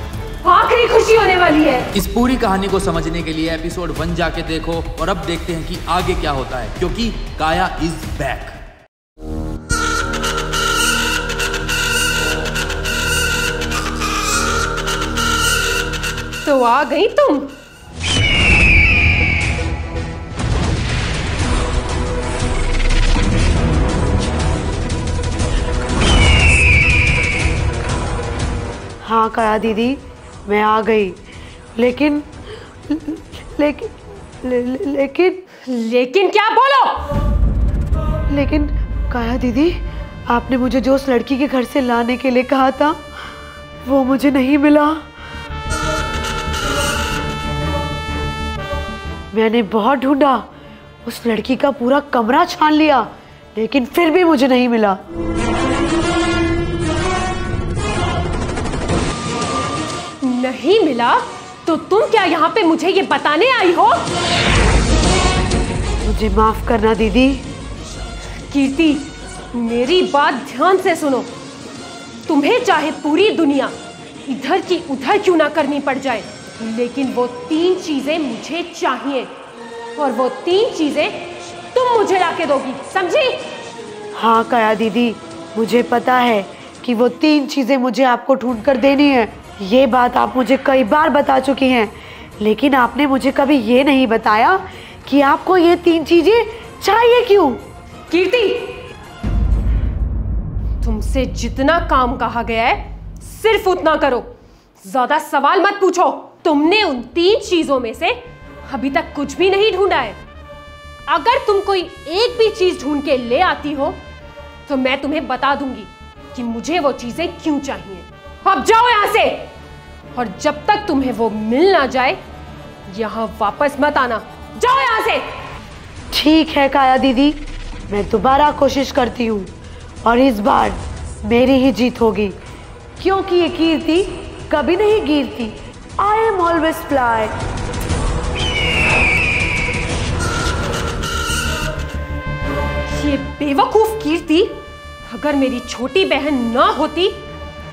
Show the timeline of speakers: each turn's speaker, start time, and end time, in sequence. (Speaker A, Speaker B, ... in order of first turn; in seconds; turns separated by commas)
Speaker A: 0.4-1.9, Speaker B: 1.9-8.6, Speaker A: 16.4-17.5, Speaker C: 29.0-31.2, Speaker C: 31.8-32.3, Speaker C: 32.9-35.4, Speaker A: 35.6-37.1, Speaker C: 38.3-43.1, Speaker C: 43.8-45.1, Speaker C: 49.3-50.5, Speaker C: 51.0-55.0, Speaker A: 60.2-64.1, Speaker C: 66.0-67.4, Speaker A: 68.5-71.3, Speaker A: 72.3-79.3, Speaker A: 79.9-83.4, Speaker C: 84.2-97.6, Speaker A: 98.1-98.8, Speaker A: 100.8-110.2, Speaker A: 111.1-114.0, Speaker A: 114.7-119.5, Speaker A: 120.1-122.2, Speaker A: 122.9-125.3, Speaker C: 126.1-129.5, Speaker C: 130.0-132.3, Speaker C: 133.0-137.3, Speaker A: 142.8-147.2